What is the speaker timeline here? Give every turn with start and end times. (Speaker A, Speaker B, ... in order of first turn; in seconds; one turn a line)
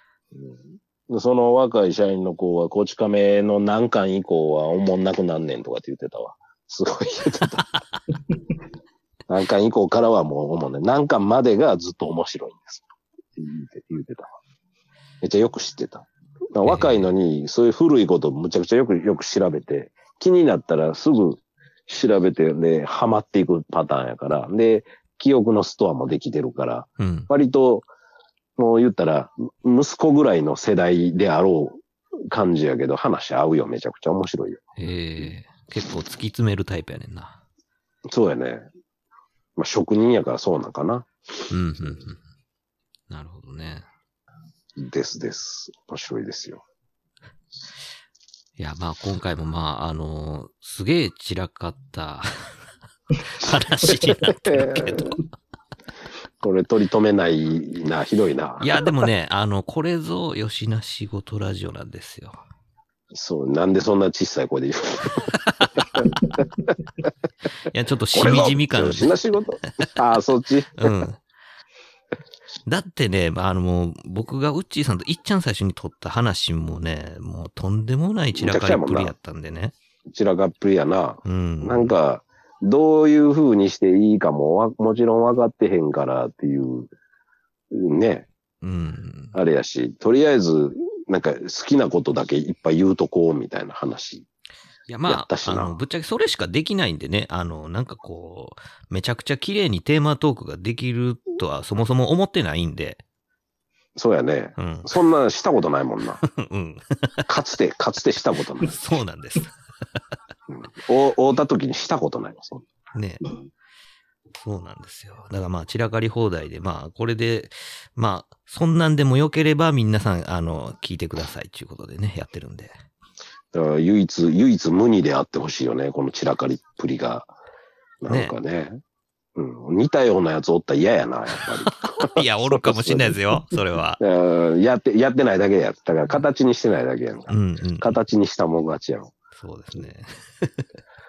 Speaker A: 0.3-7.7
Speaker A: 9.3-12.9
Speaker A: 13.4-14.3
Speaker A: 15.2-27.9
Speaker B: 16.6-17.1
Speaker B: 27.0-27.3
Speaker A: 28.6-34.6
Speaker B: 34.8-37.4
Speaker A: 38.1-38.7
Speaker A: 39.6-41.5
Speaker B: 41.5-42.2
Speaker B: 43.1-43.9
Speaker A: 44.8-46.6
Speaker B: 48.6-52.5
Speaker B: 53.3-55.2
Speaker A: 54.2-55.0
Speaker A: 56.4-58.7
Speaker B: 58.6-62.4
Speaker A: 63.1-65.3
Speaker B: 67.7-69.2
Speaker A: 68.1-70.9
Speaker B: 70.8-71.2
Speaker B: 72.7-79.7
Speaker A: 78.3-79.1
Speaker A: 80.1-86.9
Speaker B: 81.2-81.9
Speaker A: 87.7-88.3
Speaker B: 88.6-89.3
Speaker A: 89.3-94.3
Speaker B: 94.9-103.0
Speaker A: 95.1-95.8
Speaker A: 104.0-106.2
Speaker B: 104.6-104.9
Speaker B: 106.2-106.9
Speaker A: 107.3-108.8
Speaker B: 108.6-109.5
Speaker A: 110.5-112.7
Speaker B: 112.9-113.3
Speaker B: 114.4-122.8
Speaker A: 123.5-127.3
Speaker A: 128.0-128.8
Speaker B: 128.1-128.3
Speaker A: 129.4-133.2
Speaker B: 132.0-134.0
Speaker A: 134.0-139.1
Speaker B: 137.3-138.0
Speaker B: 139.4-140.6